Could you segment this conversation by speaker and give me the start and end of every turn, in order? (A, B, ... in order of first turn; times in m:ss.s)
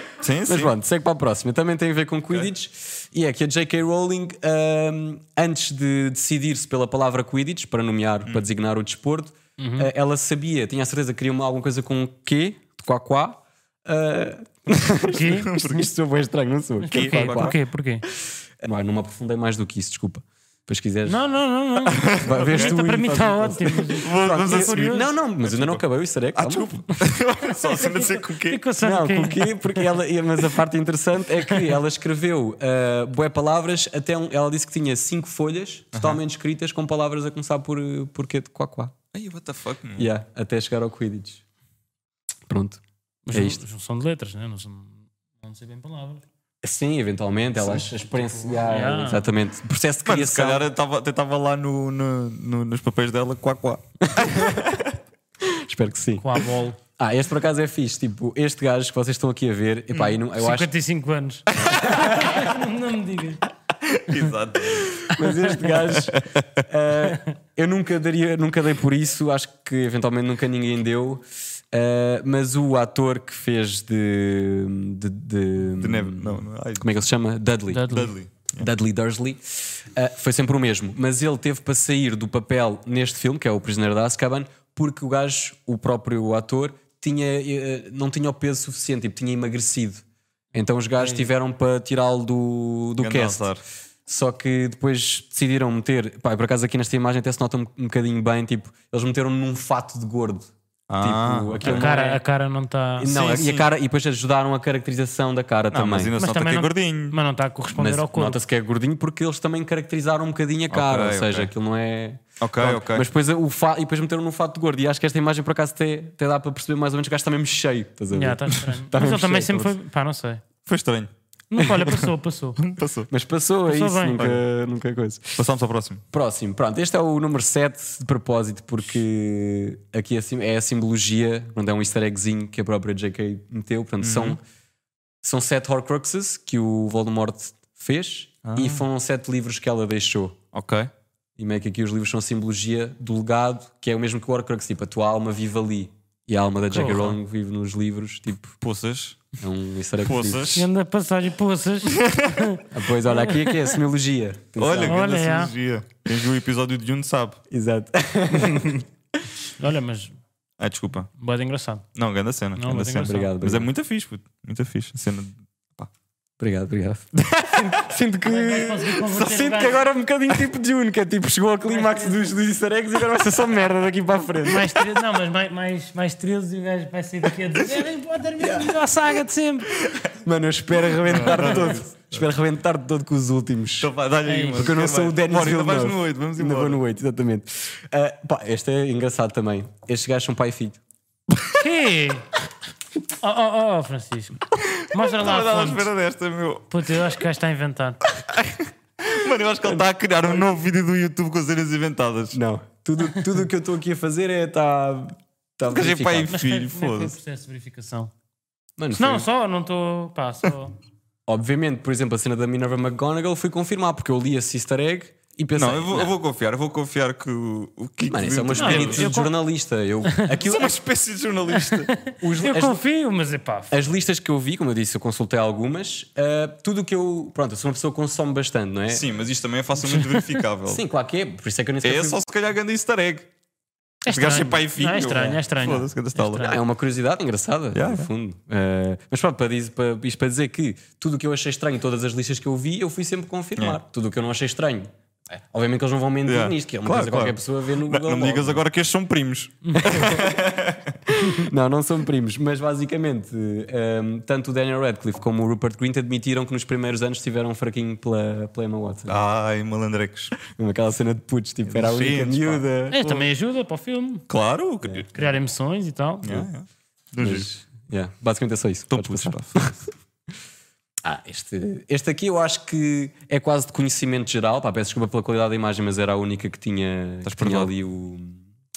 0:00.2-0:00.7 A
0:00.5-0:17.6 B
0:09.6-0:09.9 C
0:15.1-0:15.8 C
0:15.2-0:15.9 A
0:16.8-0:18.0 C
0:16.9-0:17.5 A
0:18.6-0:21.2 B
0:21.0-0:25.1 C
0:21.8-0:22.8 A
0:22.2-0:26.7 B
0:24.0-0:24.9 A
0:25.4-0:25.8 A
0:26.3-0:28.6 A
0:27.5-0:30.0 C
0:28.8-0:38.9 B
0:31.4-0:31.8 C
0:35.9-0:36.2 A
0:39.1-0:40.1 A
0:40.0-0:41.4 B
0:42.5-0:42.8 B
0:43.2-0:46.2 C
0:43.3-0:43.6 B
0:46.6-0:50.7 B
0:47.6-0:47.9 A
0:48.1-0:49.3 C
0:50.0-0:54.9 A
0:54.0-0:54.8 B
0:55.4-1:00.7 B
0:56.2-0:56.8 C
1:00.4-1:03.4 C
1:01.5-1:02.4 A
1:03.8-1:06.5 A
1:04.1-1:04.3 C
1:04.9-1:33.4 B
1:15.8-1:17.0 A
1:17.7-1:18.2 C
1:17.9-1:18.6 A
1:31.0-1:31.3 C
1:33.0-1:33.6 A
1:34.1-1:42.2 B
1:40.9-1:41.9 A
1:41.6-1:43.1 C
1:43.0-1:46.1 B
1:43.1-1:43.7 A
1:45.7-1:47.2 A
1:46.2-1:48.4 C
1:47.7-1:59.7 B
1:50.7-1:51.5 A
1:52.4-1:53.0 A
1:58.1-2:00.4 C
2:00.6-2:01.1 A
2:01.5-2:02.6 C
2:02.6-2:03.1 A
2:03.1-2:05.4 B
2:03.7-2:04.4 C
2:05.4-2:06.0 A
2:06.1-2:14.4 B
2:14.0-2:14.4 A
2:15.2-2:20.4 B
2:18.4-2:18.8 A
2:20.5-2:20.9 A
2:21.4-2:28.6 B
2:26.7-2:27.2 C
2:28.6-2:29.2 A
2:29.4-2:30.6 B
2:30.0-2:30.7 A
2:30.5-2:33.8 C
2:31.8-2:32.5 A
2:32.7-2:35.0 B
2:34.6-2:37.4 A
2:34.8-2:35.5 C
2:37.5-2:38.8 B
2:39.4-2:40.1 C
2:40.6-2:41.1 A
2:41.2-2:41.8 C
2:41.9-2:45.9 A
2:42.6-2:43.3 C
2:43.0-2:43.7 B
2:46.4-2:54.9 B
2:47.2-2:47.9 A
2:48.2-2:49.8 C
2:51.7-2:52.3 C
2:54.4-2:59.8 C
2:58.4-2:58.7 B
3:00.1-3:03.9 B
3:01.0-3:02.2 A
3:01.2-3:01.8 C
3:03.8-3:06.8 A
3:04.2-3:04.7 C
3:04.6-3:10.8 B
3:11.6-3:12.3 C
3:13.2-3:15.9 C
3:14.5-3:16.7 A
3:16.7-3:18.0 C
3:18.2-3:22.4 A
3:19.6-3:20.4 B
3:22.3-3:26.3 B
3:25.7-3:27.1 A
3:26.3-3:28.1 C
3:28.8-3:29.2 B
3:29.0-3:30.8 C
3:31.3-3:36.1 B
3:35.6-3:39.1 A
3:38.0-3:40.7 B
3:38.6-3:39.3 C
3:40.4-3:41.9 A
3:41.5-3:43.7 C
3:42.2-3:42.8 B
3:43.7-3:49.0 B
3:48.9-3:50.8 A
3:49.9-3:50.4 C
3:50.7-3:52.2 B
3:51.8-3:53.3 A
3:54.0-3:56.6 C
3:54.1-3:56.6 A
3:55.1-3:55.4 B
3:56.4-4:08.6 B
3:57.7-3:58.1 A
4:06.2-4:11.0 A
4:09.7-4:10.3 B
4:11.1-4:19.1 B
4:19.1-4:20.3 A
4:20.4-4:23.0 B
4:21.7-4:23.2 A
4:22.9-4:24.2 C
4:24.3-4:25.1 A
4:25.1-4:26.5 C
4:26.2-4:27.5 A
4:27.2-4:29.8 B
4:28.9-4:29.7 A
4:31.0-4:38.4 B
4:37.2-4:37.7 A